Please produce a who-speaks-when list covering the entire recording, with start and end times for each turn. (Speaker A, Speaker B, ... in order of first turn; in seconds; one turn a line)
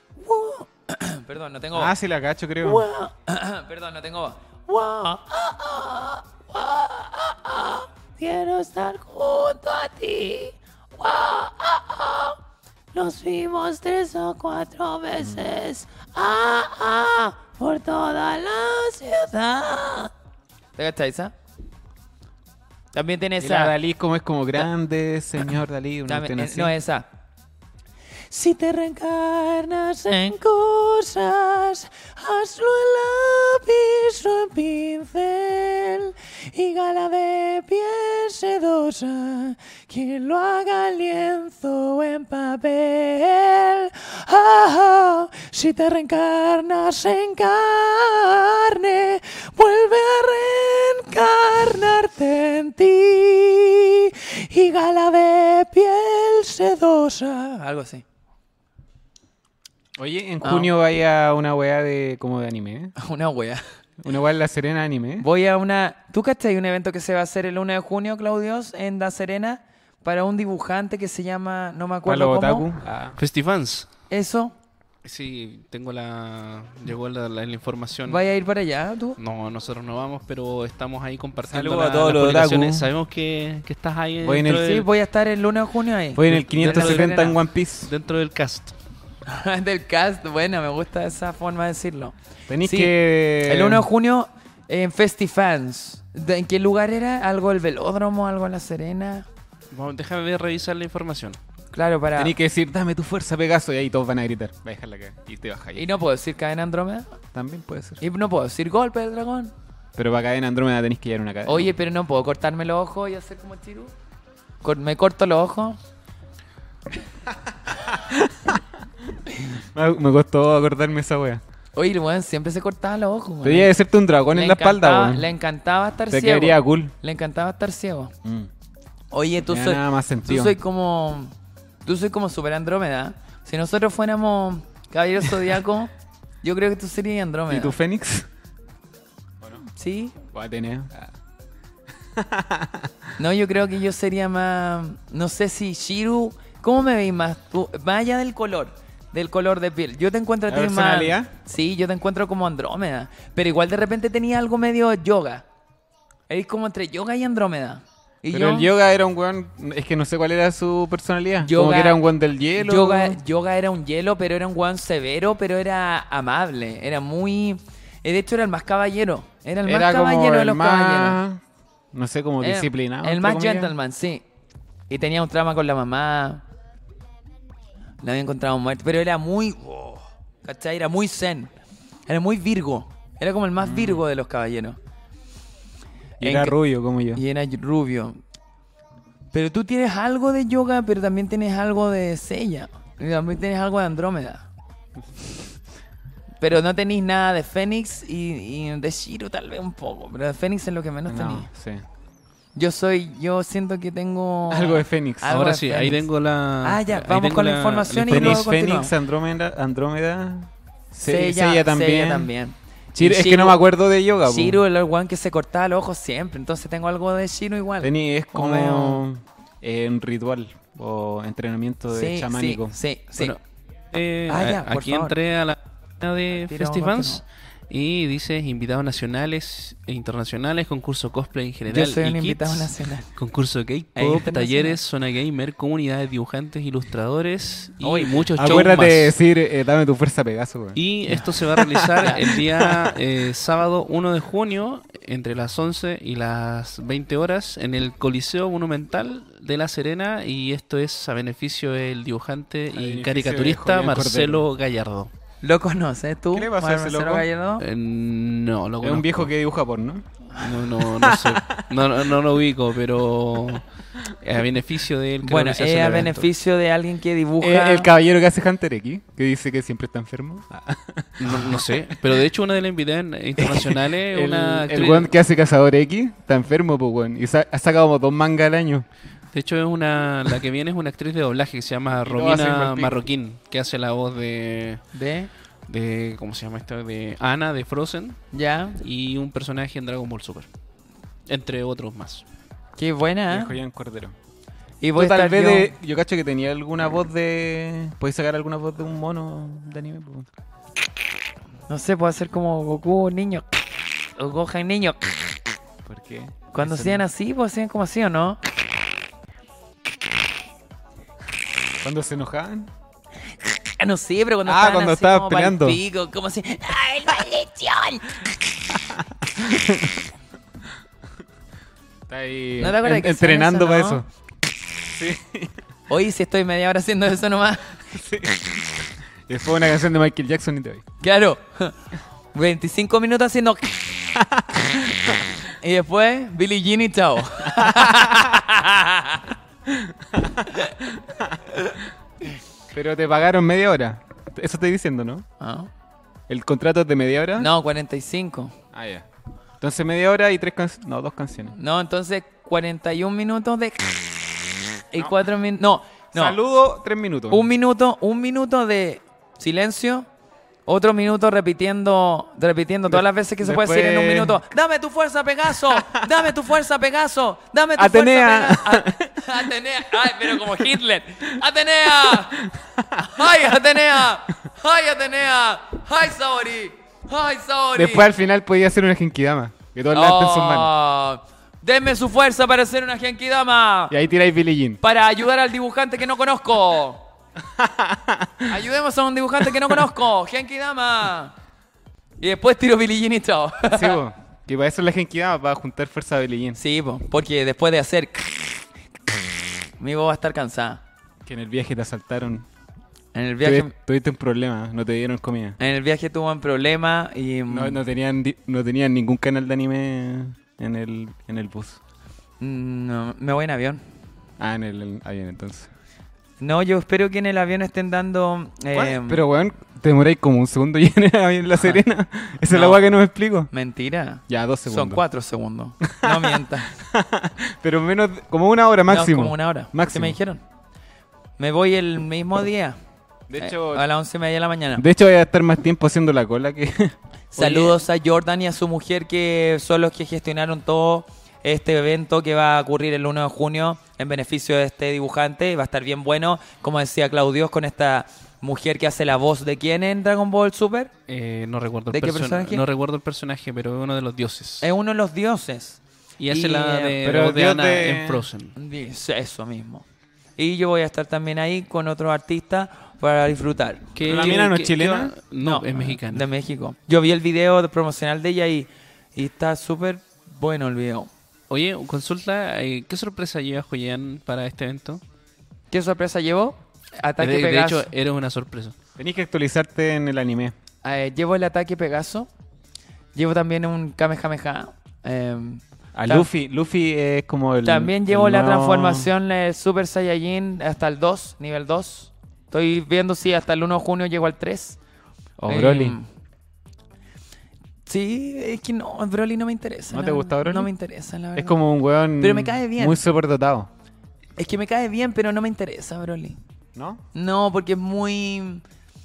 Speaker A: 0.2-1.9
Speaker B: 1.7-2.8
Speaker A: 2.6-12.4
Speaker A: 12.9-20.1
Speaker A: 20.8-21.3
Speaker A: 22.9-23.7
Speaker B: 23.4-26.7
Speaker A: 26.1-27.1
Speaker A: 28.3-58.0
Speaker B: 60.0-62.9
Speaker A: 60.4-60.7
Speaker A: 63.0-63.6
Speaker B: 64.0-65.2
Speaker A: 65.2-72.7
Speaker B: 72.0-73.2
Speaker C: 73.2-73.9
Speaker A: 74.1-74.5
Speaker C: 75.0-78.2
Speaker A: 78.1-79.2
Speaker C: 79.2-84.9
Speaker B: 81.4-82.9
Speaker B: 84.2-84.7
Speaker A: 84.5-87.4
Speaker B: 86.1-87.9
Speaker C: 86.3-87.3
Speaker C: 87.8-88.8
Speaker A: 89.2-92.9
Speaker B: 92.5-93.8
Speaker A: 93.4-99.3
Speaker C: 99.7-101.4
Speaker A: 101.7-102.3
Speaker B: 102.2-105.8
Speaker A: 105.8-107.1
Speaker B: 107.3-108.0
Speaker A: 108.0-109.5
Speaker B: 110.0-111.7
Speaker A: 111.5-113.9
Speaker A: 114.6-115.8
Speaker B: 117.8-118.6
Speaker B: 119.7-121.4
Speaker A: 121.7-123.7
Speaker B: 123.4-125.3
Speaker A: 124.3-128.1
Speaker B: 126.1-126.9
Speaker B: 128.2-128.5
Speaker A: 129.1-131.3
Speaker B: 129.5-130.6
Speaker A: 131.8-135.9
Speaker A: 136.4-137.7
Speaker B: 137.5-138.3
Speaker A: 139.7-140.2
Speaker B: 140.3-141.1
Speaker B: 142.2-143.0
Speaker A: 143.2-155.4
Speaker B: 150.5-151.3
Speaker A: 156.3-158.7
Speaker B: 158.3-163.2
Speaker A: 161.4-162.0
Speaker A: 162.6-171.2
Speaker B: 169.6-171.4
Speaker B: 171.9-173.7
Speaker A: 172.4-174.2
Speaker A: 174.9-176.4
Speaker A: 178.0-181.5
Speaker A: 182.1-184.8
Speaker B: 183.6-184.0
Speaker A: 186.2-186.6
Speaker B: 186.2-187.2
Speaker A: 187.1-188.2
Speaker A: 189.3-194.4
Speaker A: 196.4-201.5
Speaker B: 201.1-201.8
Speaker A: 202.5-206.0
Speaker B: 204.5-205.3
Speaker C: 205.2-208.4
Speaker A: 206.6-208.9
Speaker B: 208.1-212.3
Speaker A: 211.0-213.6
Speaker B: 212.9-214.6
Speaker A: 214.2-219.0
Speaker B: 217.8-222.7
Speaker A: 221.9-223.3
Speaker C: 223.9-239.2
Speaker A: 224.3-225.1
Speaker A: 226.4-227.2
Speaker A: 231.7-233.1
Speaker A: 233.9-234.8
Speaker A: 237.8-238.3
Speaker B: 238.4-240.8
Speaker C: 240.7-255.1
Speaker B: 241.3-242.2
Speaker A: 242.0-242.3
Speaker B: 252.7-254.4
Speaker A: 255.4-257.6
Speaker B: 256.3-257.2
Speaker C: 257.6-259.3
Speaker B: 258.8-260.0
Speaker C: 260.4-263.6
Speaker B: 260.8-261.7
Speaker C: 264.2-266.3
Speaker A: 265.2-267.9
Speaker B: 267.4-272.0
Speaker C: 271.2-275.1
Speaker B: 273.4-278.9
Speaker C: 279.3-284.8
Speaker B: 282.0-283.0
Speaker A: 284.9-285.3
Speaker C: 285.7-288.2
Speaker A: 288.3-288.8
Speaker C: 288.8-290.5
Speaker C: 291.3-292.2
Speaker A: 292.8-293.6
Speaker B: 293.3-294.1
Speaker A: 294.8-295.7
Speaker B: 294.9-300.3
Speaker A: 301.7-303.4
Speaker A: 304.2-305.0
Speaker B: 305.9-307.0
Speaker A: 306.5-308.4
Speaker B: 311.8-312.7
Speaker A: 313.4-318.4
Speaker B: 314.4-315.8
Speaker B: 318.9-320.0
Speaker B: 322.1-324.1
Speaker A: 322.6-324.0
Speaker B: 324.9-325.5
Speaker A: 325.9-327.8
Speaker B: 327.9-328.7
Speaker B: 329.3-330.8
Speaker A: 331.0-331.8
Speaker A: 332.3-334.0
Speaker B: 334.2-335.2
Speaker A: 335.5-339.2
Speaker B: 337.5-338.3
Speaker B: 339.7-341.4
Speaker B: 342.7-345.2
Speaker A: 345.4-345.7
Speaker B: 346.3-347.5
Speaker A: 347.4-348.5
Speaker B: 348.7-349.1
Speaker B: 349.6-351.5
Speaker A: 351.6-354.4
Speaker A: 354.9-356.4
Speaker B: 356.1-357.5
Speaker A: 357.3-360.1
Speaker A: 360.6-372.4
Speaker B: 362.9-364.4
Speaker B: 365.7-366.0
Speaker B: 367.8-369.5
Speaker B: 372.1-373.2
Speaker A: 373.0-378.1
Speaker B: 377.7-380.7
Speaker A: 379.9-383.9
Speaker B: 383.9-384.8
Speaker A: 384.8-387.0
Speaker B: 387.6-388.5
Speaker A: 388.5-391.3
Speaker A: 392.2-394.0
Speaker B: 393.7-396.6
Speaker A: 396.6-398.6
Speaker A: 399.8-400.8
Speaker B: 401.2-402.4
Speaker A: 403.1-403.7
Speaker B: 403.4-405.6
Speaker A: 405.6-407.8
Speaker B: 407.5-411.8
Speaker A: 412.4-413.8
Speaker B: 414.4-415.7
Speaker A: 416.4-419.2
Speaker B: 418.7-423.5
Speaker A: 422.5-422.8
Speaker A: 423.5-426.7
Speaker B: 424.3-425.0
Speaker B: 425.8-430.2
Speaker A: 428.9-430.4
Speaker A: 431.4-432.8
Speaker B: 433.3-433.8
Speaker A: 433.4-434.8
Speaker B: 434.8-436.9
Speaker A: 437.3-450.9
Speaker C: 437.4-437.7
Speaker C: 451.1-454.7
Speaker A: 451.9-452.6
Speaker A: 454.6-455.8
Speaker C: 456.2-458.6
Speaker A: 456.3-457.0
Speaker B: 457.0-458.2
Speaker A: 458.6-459.8
Speaker A: 460.4-464.4
Speaker C: 463.9-466.3
Speaker B: 464.0-465.1
Speaker A: 465.4-471.1
Speaker C: 471.5-475.0
Speaker A: 475.7-477.9
Speaker C: 477.2-478.7
Speaker B: 479.0-480.6
Speaker A: 480.8-482.3
Speaker A: 483.1-486.3
Speaker B: 485.9-489.1
Speaker A: 487.6-494.8
Speaker B: 495.4-496.0
Speaker A: 495.5-496.1
Speaker A: 497.9-501.6
Speaker B: 499.9-500.7
Speaker B: 501.4-503.7
Speaker A: 502.2-503.0
Speaker A: 504.4-506.4
Speaker B: 506.8-507.0
Speaker A: 507.1-508.6